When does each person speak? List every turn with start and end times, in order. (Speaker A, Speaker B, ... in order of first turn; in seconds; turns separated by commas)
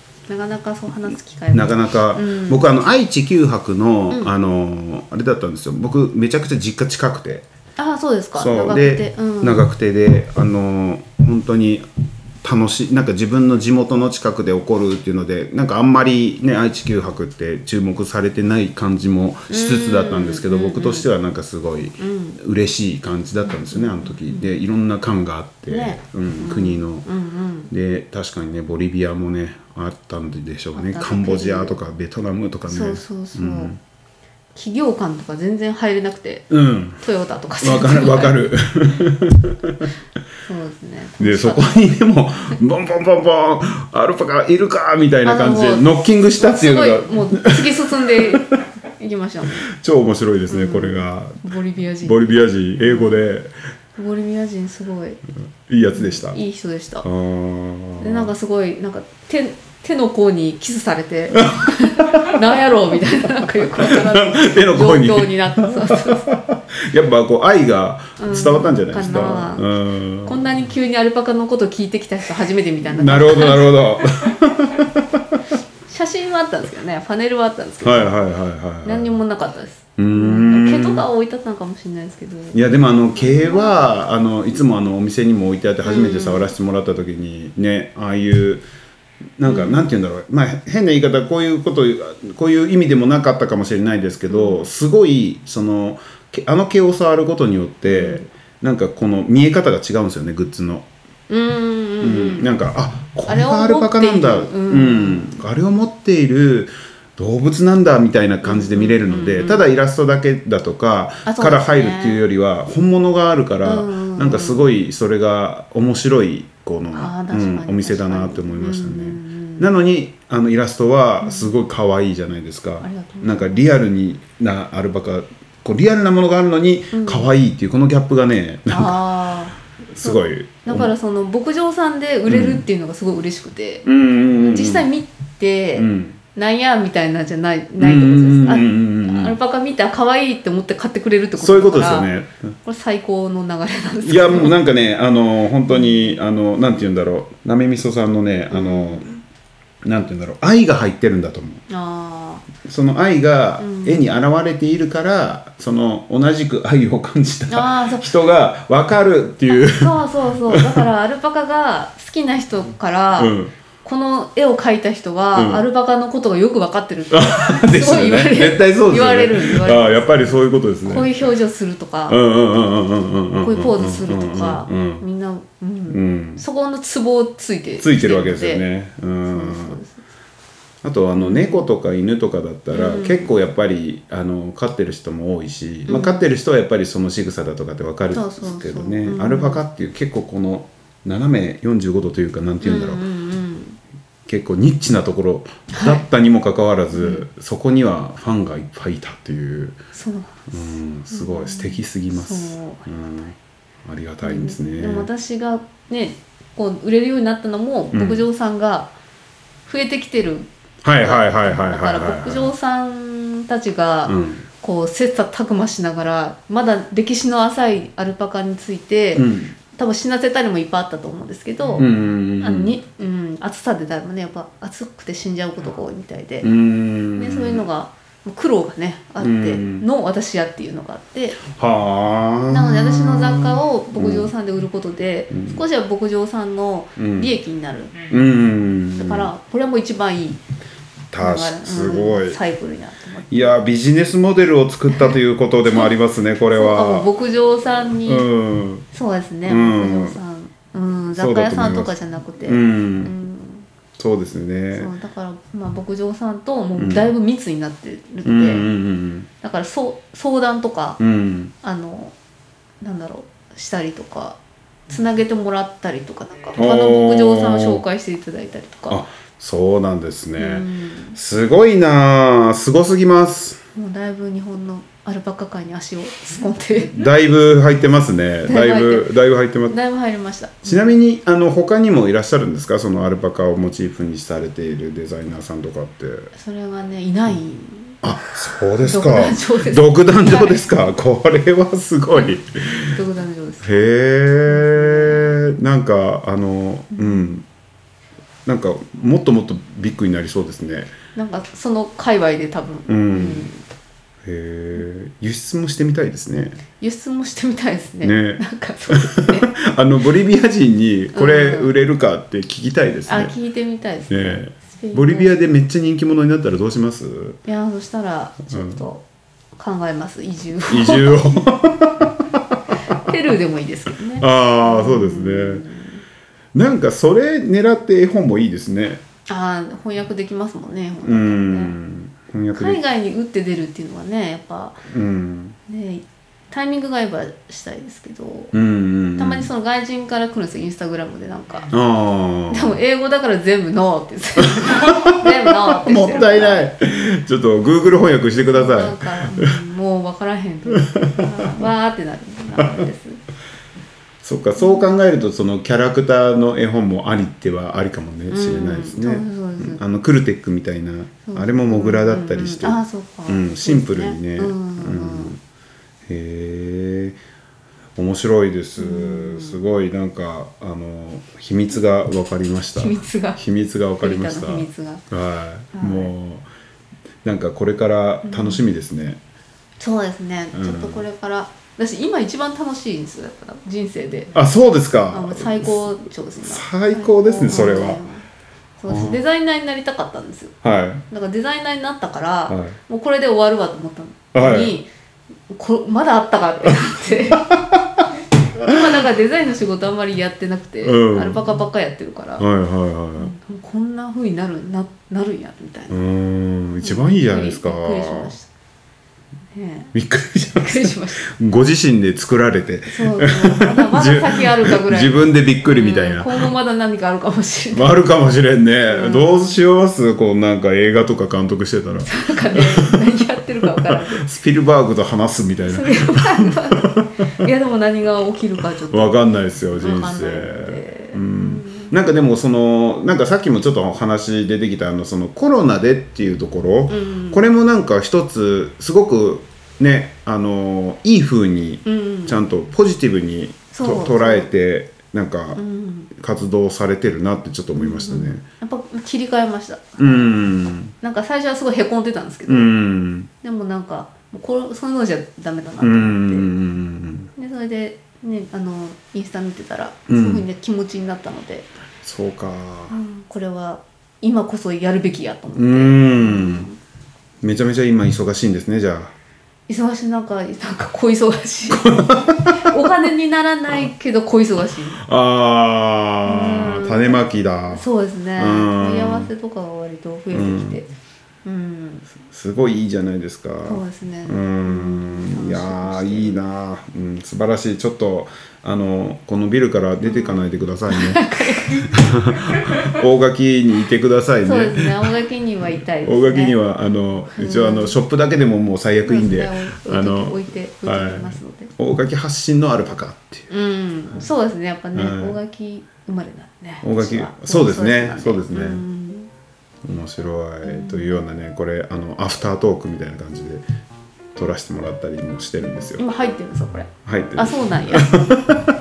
Speaker A: 0.3-2.7, Speaker B: 1.5-7.5, Speaker A: 7.8-9.6, Speaker B: 8.3-11.8, Speaker B: 12.4-27.1, Speaker A: 19.5-21.1, Speaker A: 22.0-22.4, Speaker A: 23.4-24.5, Speaker A: 25.7-27.7, Speaker B: 27.7-33.8, Speaker A: 30.7-31.8, Speaker A: 32.7-33.7, Speaker A: 34.5-38.5, Speaker B: 36.5-37.0, Speaker B: 37.6-39.9, Speaker A: 40.4-42.0, Speaker B: 41.2-48.6, Speaker A: 45.2-49.7, Speaker B: 49.7-51.4, Speaker A: 50.5-53.2, Speaker B: 52.0-53.5, Speaker A: 54.0-55.2, Speaker B: 55.7-56.4, Speaker A: 55.9-57.0, Speaker B: 57.0-58.3, Speaker A: 58.0-66.2, Speaker B: 63.8-70.4, Speaker A: 68.2-69.7, Speaker A: 70.2-73.8, Speaker B: 72.9-75.4, Speaker A: 75.9-78.2, Speaker B: 77.8-79.2, Speaker A: 78.8-82.6, Speaker B: 80.0-81.0, Speaker B: 82.5-88.7, Speaker A: 83.1-84.0, Speaker A: 85.8-86.5, Speaker B: 89.4-100.9, Speaker A: 89.4-89.8, Speaker A: 94.3-94.7, Speaker A: 97.8-98.2, Speaker A: 101.3-102.5, Speaker B: 102.0-129.1, Speaker A: 103.2-105.3, Speaker A: 108.4-109.7, Speaker A: 111.2-112.2, Speaker A: 113.6-114.7, Speaker A: 116.9-119.7, Speaker A: 121.2-121.5, Speaker A: 122.8-123.7, Speaker A: 126.9-127.3, Speaker A: 128.7-142.1, Speaker B: 129.9-130.9, Speaker B: 132.3-132.6, Speaker B: 133.8-134.9, Speaker B: 135.8-136.2, Speaker B: 137.8-139.4, Speaker B: 141.3-142.4, Speaker A: 142.6-144.5, Speaker B: 144.0-149.2, Speaker A: 145.7-146.2, Speaker A: 148.5-149.1, Speaker B: 149.8-151.6, Speaker A: 151.7-152.4, Speaker B: 152.6-160.0, Speaker A: 153.6-154.1, Speaker A: 157.5-158.1, Speaker A: 159.5-172.2, Speaker B: 160.5-160.8, Speaker B: 163.2-163.5, Speaker B: 165.3-165.6, Speaker B: 167.1-171.1, Speaker B: 172.1-175.0, Speaker A: 173.4-178.6, Speaker B: 175.9-176.4, Speaker B: 177.8-179.8, Speaker A: 179.2-180.0, Speaker B: 180.8-193.0, Speaker A: 181.1-181.7, Speaker A: 182.7-183.3, Speaker A: 185.9-186.2, Speaker A: 188.1-189.6, Speaker A: 192.6-193.8, Speaker B: 194.2-199.8, Speaker A: 195.7-196.0, Speaker A: 196.9-197.2, Speaker A: 199.9-203.3, Speaker B: 200.5-205.1, Speaker A: 204.2-208.9, Speaker B: 207.9-208.2, Speaker A: 209.7-226.5, Speaker B: 210.8-212.5, Speaker B: 214.1-214.4, Speaker B: 219.1-219.5, Speaker B: 221.8-222.8, Speaker B: 226.4-227.6, Speaker A: 227.1-231.4, Speaker B: 229.2-229.9, Speaker B: 231.5-234.3, Speaker A: 232.5-238.0, Speaker B: 235.3-235.6, Speaker B: 237.0-237.3, Speaker B: 238.1-239.3, Speaker A: 238.9-240.4, Speaker B: 241.1-242.4, Speaker A: 241.2-243.6, Speaker B: 243.3-247.1, Speaker A: 244.9-245.9, Speaker A: 246.5-248.3, Speaker B: 248.0-248.8, Speaker A: 248.9-253.7, Speaker B: 249.4-250.2, Speaker B: 251.2-253.1, Speaker B: 254.0-254.9, Speaker A: 254.7-258.7, Speaker B: 256.8-257.1, Speaker B: 258.2-259.3, Speaker A: 259.4-261.0, Speaker B: 261.0-261.5, Speaker A: 261.6-262.1, Speaker A: 262.8-269.0, Speaker B: 266.5-267.8, Speaker B: 268.9-273.6, Speaker A: 270.4-271.2, Speaker A: 273.7-277.1, Speaker B: 276.9-279.7, Speaker A: 278.4-279.1, Speaker A: 279.7-280.9, Speaker B: 280.6-286.3, Speaker A: 286.3-288.0, Speaker B: 288.0-293.0, Speaker A: 288.8-290.7, Speaker A: 292.9-293.7, Speaker B: 293.6-297.4, Speaker A: 294.4-295.4, Speaker A: 296.9-297.4, Speaker B: 298.4-300.9, Speaker A: 301.1-303.6, Speaker B: 302.9-303.5, Speaker B: 304.2-306.6, Speaker A: 306.8-309.5, Speaker B: 308.0-313.3, Speaker A: 311.1-311.7, Speaker A: 313.1-315.3, Speaker B: 314.1-317.4, Speaker A: 317.4-319.0, Speaker B: 318.5-318.8, Speaker A: 319.6-321.3, Speaker B: 320.7-322.4, Speaker A: 322.8-326.0, Speaker B: 324.2-325.6, Speaker B: 326.5-329.0, Speaker A: 329.3-331.8, Speaker B: 331.0-332.8, Speaker A: 332.5-334.8, Speaker B: 334.9-335.6, Speaker A: 335.7-338.5, Speaker B: 338.5-339.5, Speaker A: 339.1-341.7, Speaker B: 341.7-342.8, Speaker A: 342.5-346.7, Speaker B: 344.6-349.5, Speaker A: 348.4-353.2, Speaker B: 350.7-351.7, Speaker B: 354.2-365.4, Speaker A: 354.6-354.9, Speaker A: 358.3-359.8, Speaker A: 361.2-365.4, Speaker B: 366.1-367.2, Speaker B: 368.0-376.5, Speaker A: 368.8-369.6, Speaker A: 372.8-373.4, Speaker A: 374.0-375.0, Speaker A: 375.7-376.1, Speaker B: 377.2-379.2, Speaker A: 378.2-378.6, Speaker A: 379.8-384.4, Speaker B: 380.5-381.0, Speaker B: 384.3-388.0, Speaker A: 385.1-388.2, Speaker A: 388.8-390.5, Speaker B: 388.9-389.2, Speaker B: 390.6-391.0, Speaker A: 391.1-394.9, Speaker B: 392.5-392.8, Speaker B: 394.3-394.7, Speaker A: 395.5-397.5, Speaker B: 397.5-397.8, Speaker A: 398.6-402.4, Speaker B: 400.8-401.5, Speaker B: 402.4-403.3, Speaker A: 403.1-406.0, Speaker B: 405.9-408.3, Speaker A: 406.8-408.5, Speaker A: 409.5-409.9, Speaker B: 409.9-416.5, Speaker A: 410.5-411.3, Speaker A: 412.9-417.9, Speaker B: 417.7-423.1, Speaker A: 418.9-419.6, Speaker A: 422.0-424.2, Speaker B: 423.9-427.1, Speaker A: 425.6-431.9, Speaker B: 428.9-445.6, Speaker A: 436.9-437.4, Speaker A: 441.8-442.4, Speaker A: 443.7-444.5, Speaker A: 445.6-446.1, Speaker B: 446.1-448.4, Speaker A: 447.8-450.3, Speaker B: 450.0-450.9, Speaker A: 451.0-452.7, Speaker B: 452.4-453.3, Speaker A: 453.4-456.5, Speaker B: 455.8-457.3, Speaker A: 457.4-461.7, Speaker B: 460.1-460.4, Speaker B: 462.0-462.9, Speaker A: 462.9-466.8, Speaker B: 465.5-466.7, Speaker B: 467.4-469.1, Speaker A: 469.7-475.0, Speaker B: 471.7-472.7, Speaker B: 475.0-479.3, Speaker A: 476.2-480.9, Speaker B: 480.3-480.8, Speaker A: 481.4-482.1, Speaker B: 482.2-495.1, Speaker A: 483.6-486.4, Speaker A: 490.0-491.9, Speaker A: 494.4-496.6, Speaker B: 496.0-503.5, Speaker A: 497.3-498.0, Speaker A: 499.0-501.7, Speaker A: 503.5-509.3, Speaker B: 504.9-505.4, Speaker B: 506.8-508.8, Speaker B: 509.8-513.6, Speaker A: 510.6-511.2, Speaker B: 514.3-516.0, Speaker A: 516.0-518.1, Speaker B: 517.0-518.6